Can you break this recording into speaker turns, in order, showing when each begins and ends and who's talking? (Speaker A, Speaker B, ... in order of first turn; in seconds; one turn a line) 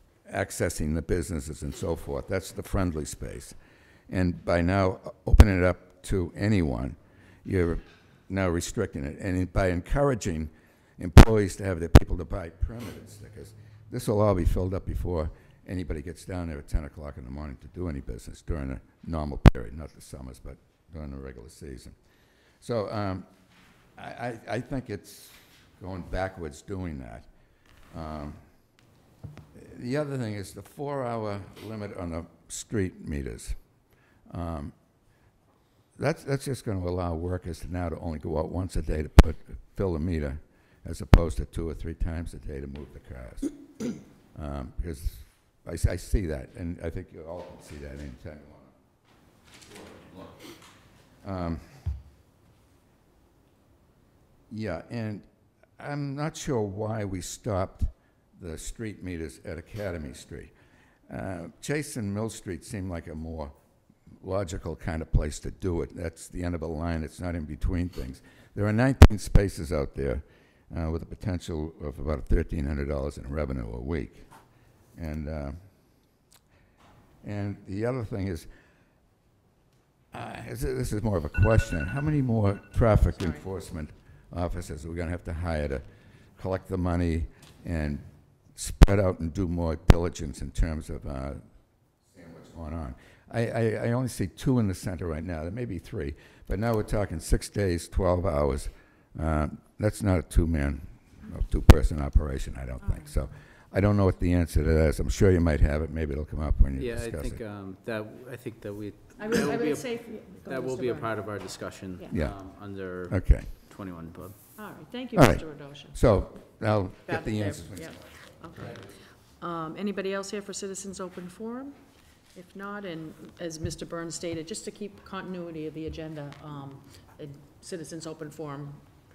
Speaker A: 0.2-21.9
Speaker A: 22.6-23.3
Speaker A: 23.9-27.3
Speaker A: 27.9-28.4
Speaker A: 29.5-33.6
Speaker A: 34.2-34.7
Speaker A: 36.0-48.7
Speaker A: 49.7-50.5
Speaker A: 51.2-52.0
Speaker A: 54.5-60.5
Speaker A: 61.1-63.5
Speaker A: 64.1-76.0
Speaker A: 77.2-78.5
Speaker A: 80.1-107.4
Speaker B: 102.8-103.1
Speaker C: 106.8-114.4
Speaker B: 109.2-112.2
Speaker A: 112.1-113.5
Speaker B: 114.5-128.8
Speaker A: 115.1-118.9